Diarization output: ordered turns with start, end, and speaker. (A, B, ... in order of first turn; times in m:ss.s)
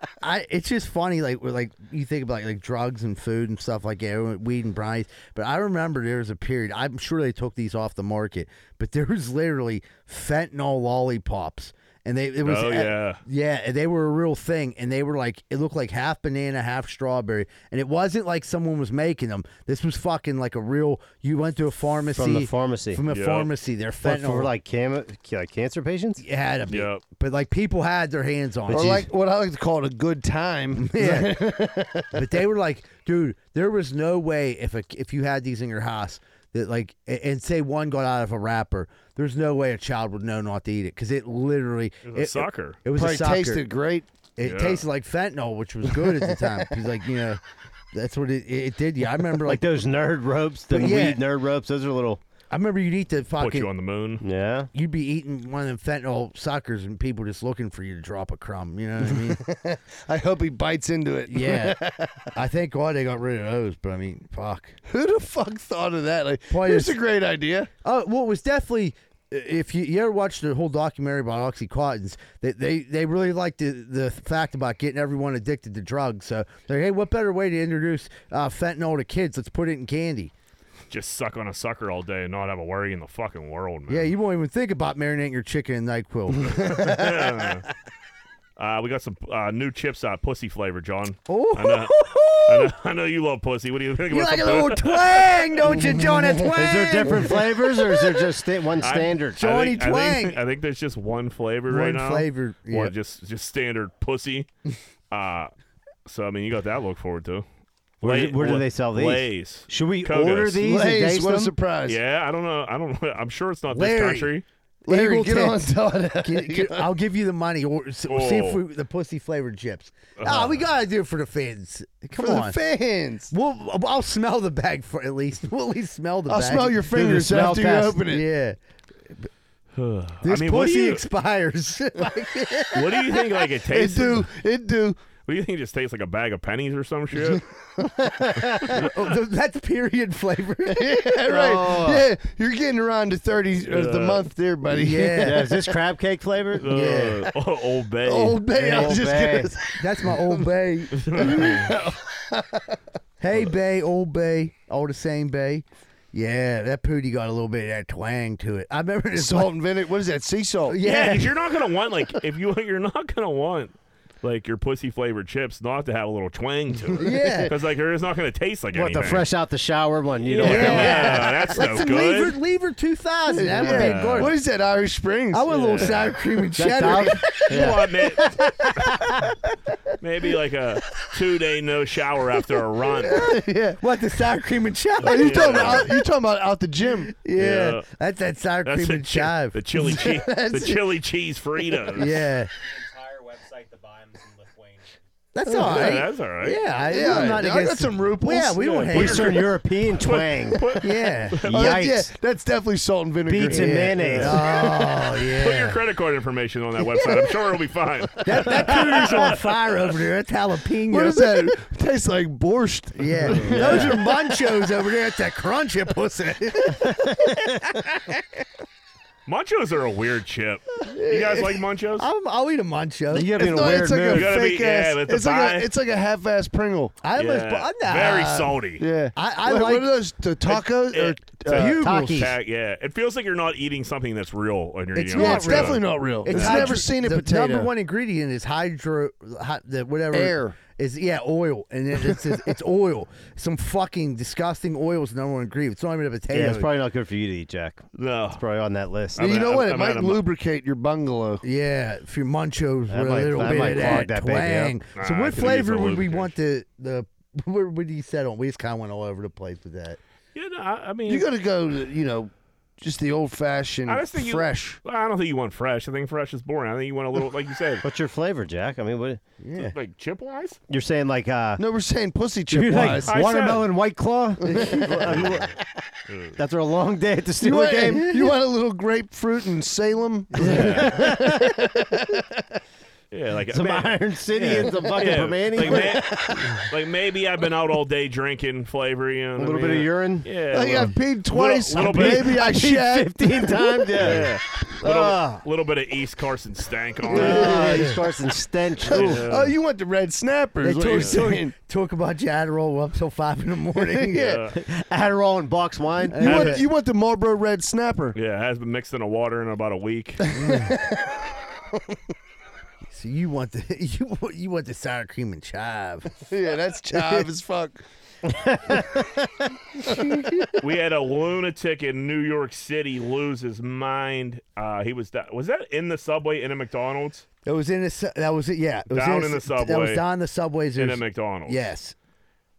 0:00.2-0:24.5 A
0:12.4-0:13.2 B
0:22.1-0:23.0 C
0:23.1-0:23.5 B
0:24.0-0:26.2 C
0:26.2-0:29.1 A
0:26.7-0:27.0 B
0:28.7-0:29.0 C
0:28.7-0:32.2 D
0:30.8-0:31.6 A
0:32.1-0:43.6 A
0:42.1-0:42.8 B
0:43.0-0:44.1 D
0:44.4-0:47.4 A
0:44.4-0:44.8 B
0:45.9-0:46.7 D
0:47.9-0:49.6 A
0:49.4-0:52.2 C
0:50.7-0:51.2 A
0:52.5-0:53.7 A
0:53.4-0:54.2 B
0:54.2-0:54.7 C
0:54.7-0:59.4 A
0:59.3-1:02.3 D
1:01.3-1:01.8 A
1:02.3-1:04.8 A
1:04.9-1:07.7 D
1:06.5-1:07.0 A
1:07.8-1:20.3 A
1:20.9-1:24.1 B
1:23.9-1:27.1 A
1:26.7-1:27.7 B
1:28.6-1:31.9 B
1:31.3-1:32.7 A
1:32.4-1:35.6 B
1:34.1-1:38.3 A
1:35.7-1:36.5 D
1:36.6-1:39.4 C
1:38.8-1:44.5 B
1:39.4-1:40.4 A
1:41.7-1:42.9 A
1:45.1-1:45.5 B
1:46.1-1:47.5 B
1:48.0-1:50.6 B
1:48.0-1:51.5 C
1:50.6-1:52.0 D
1:51.9-1:54.4 B
1:53.7-1:54.3 A
1:54.9-2:02.6 A
1:54.9-1:56.9 D
1:58.1-1:58.6 B
2:00.2-2:00.6 B
2:02.2-2:03.3 D
2:03.3-2:08.6 A
2:06.3-2:08.2 D
2:09.8-2:11.0 B
2:10.2-2:13.5 A
2:12.7-2:14.3 B
2:13.7-2:15.0 D
2:15.3-2:17.5 B
2:18.6-2:18.9 B
2:18.6-2:21.2 A
2:20.7-2:25.5 D
2:21.3-2:22.0 C
2:23.7-2:24.3 B
2:24.7-2:25.6 A
2:25.2-2:26.7 C
2:26.6-2:28.9 B
2:26.6-2:27.3 A
2:28.0-2:30.4 D
2:28.5-2:29.5 C
2:29.8-2:31.8 A
2:31.0-2:31.7 B
2:31.2-2:32.6 D
2:33.2-2:39.5 A
2:39.2-2:40.8 D
2:40.7-2:41.5 A
2:40.8-2:49.3 B
2:47.0-2:47.6 A
2:48.7-2:51.3 C
2:50.2-2:52.4 B
2:50.4-2:54.4 A
2:53.3-2:55.8 D
2:53.5-2:53.8 C
2:53.7-2:54.3 B
2:55.3-2:57.7 A
2:55.5-2:56.1 B
2:56.6-2:59.1 C
2:57.4-2:58.3 B
2:58.9-2:59.3 A
3:00.0-3:03.3 B
3:03.0-3:03.8 D
3:03.0-3:06.0 A
3:05.0-3:07.1 D
3:05.1-3:06.0 B
3:07.1-3:09.9 A
3:07.4-3:07.9 B
3:08.6-3:12.3 B
3:09.8-3:10.8 D
3:12.0-3:12.5 A
3:12.6-3:15.0 E
3:15.3-3:19.4 A
3:15.5-3:15.9 D
3:15.6-3:16.6 B
3:16.9-3:18.7 D
3:18.6-3:21.8 B
3:18.9-3:20.6 C
3:20.8-3:21.4 A
3:21.4-3:22.1 C
3:21.5-3:24.4 D
3:23.3-3:24.4 C
3:23.5-3:25.8 A
3:25.2-3:29.5 B
3:28.2-3:31.6 A
3:30.9-3:34.2 D
3:33.0-3:38.2 A
3:33.4-3:33.9 C
3:39.3-3:42.1 B
3:40.8-3:43.3 A
3:43.1-3:44.4 C
3:43.4-3:47.0 D
3:44.1-3:45.7 B
3:47.0-3:48.6 A
3:47.2-3:48.8 B
3:48.8-3:51.8 D
3:49.2-3:49.9 A
3:50.5-3:56.8 B
3:51.5-3:52.3 A
3:51.8-3:52.3 C
3:55.0-4:06.7 A
3:55.1-3:57.7 D
4:00.1-4:00.6 D
4:06.3-4:09.2 C
4:08.0-4:08.4 B
4:09.2-4:10.2 B
4:09.2-4:11.4 D
4:11.4-4:20.0 A
4:12.9-4:14.8 C
4:15.0-4:16.3 B
4:20.4-4:21.3 B
4:21.1-4:24.8 D
4:23.9-4:27.8 B
4:27.8-4:29.2 C
4:29.4-4:29.8 A
4:29.6-4:30.6 B
4:30.7-4:31.6 C
4:31.6-4:33.1 D
4:32.5-4:35.5 C
4:33.1-4:33.7 B
4:34.4-4:35.4 A
4:34.5-4:34.8 D
4:35.1-4:35.5 B
4:36.1-4:36.4 B
4:36.4-4:38.1 C
4:37.4-4:42.2 D
4:37.9-4:38.4 A
4:40.4-4:41.6 C
4:40.4-4:41.0 B
4:43.1-4:52.4 B
4:43.5-4:46.4 C
4:49.4-4:50.3 C
4:50.5-4:54.2 D
4:51.8-4:54.3 C
4:54.0-4:57.7 B
4:54.8-4:55.4 C
4:57.1-4:58.0 D
4:57.1-4:59.3 C
4:57.5-4:57.9 A
4:58.9-5:01.5 D
4:58.9-4:59.5 B
5:00.6-5:04.4 A
5:00.9-5:01.2 B
5:03.8-5:04.4 D
5:04.2-5:04.6 B
5:04.6-5:06.2 C
5:06.1-5:06.6 A
5:06.2-5:08.2 D
5:06.2-5:06.6 B
5:08.2-5:10.2 B
5:10.2-5:11.3 D
5:10.3-5:10.7 A
5:12.9-5:16.2 A
5:16.2-5:17.8 D
5:16.9-5:17.3 A
5:18.3-5:19.0 C
5:19.8-5:20.6 A
5:19.8-5:20.1 D
5:20.6-5:27.3 B
5:27.4-5:32.0 A
5:28.9-5:30.0 B
5:30.8-5:31.6 B